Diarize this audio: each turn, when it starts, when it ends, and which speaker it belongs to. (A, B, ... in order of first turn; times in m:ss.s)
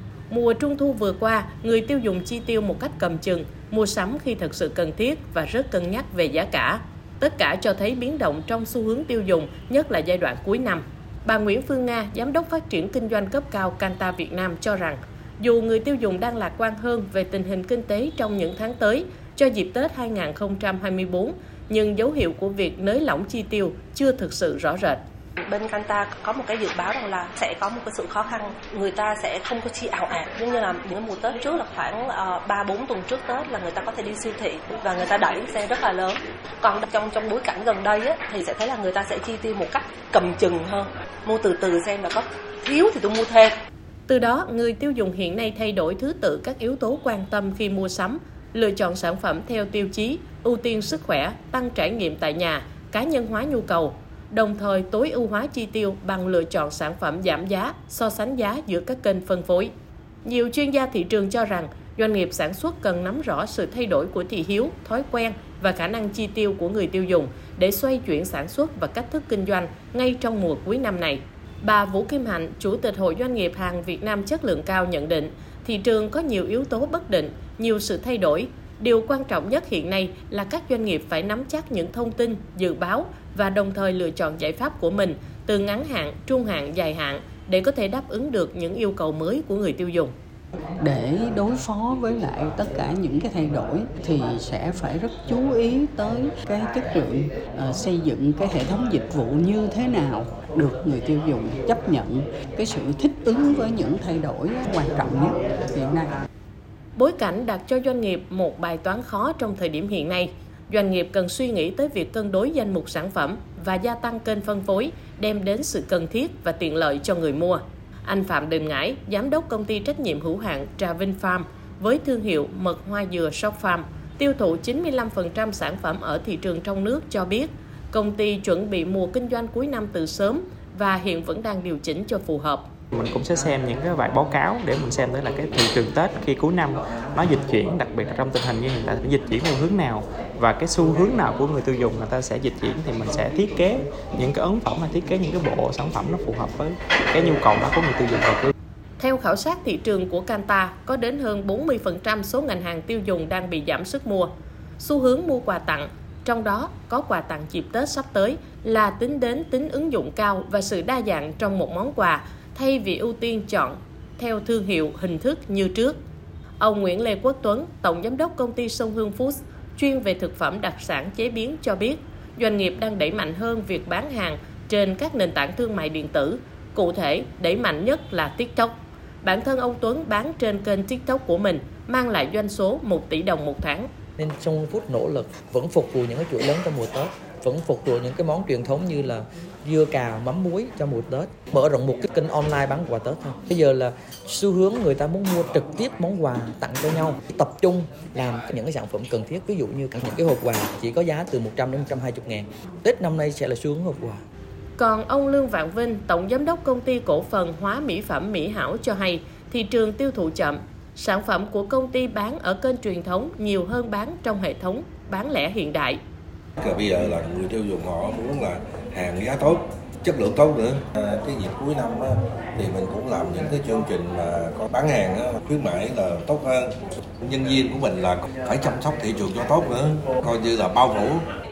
0:00.3-0:25.0 A
0:25.4-0:43.6 B
0:44.1-0:59.7 A
1:00.2-1:30.1 A
1:30.8-1:46.2 C
1:47.0-2:12.7 A
2:12.9-2:28.5 D
2:29.0-2:46.0 A
2:46.6-3:03.9 A
3:04.2-3:24.2 E
3:24.8-3:36.0 A
3:36.6-3:46.6 F
3:47.2-3:51.2 F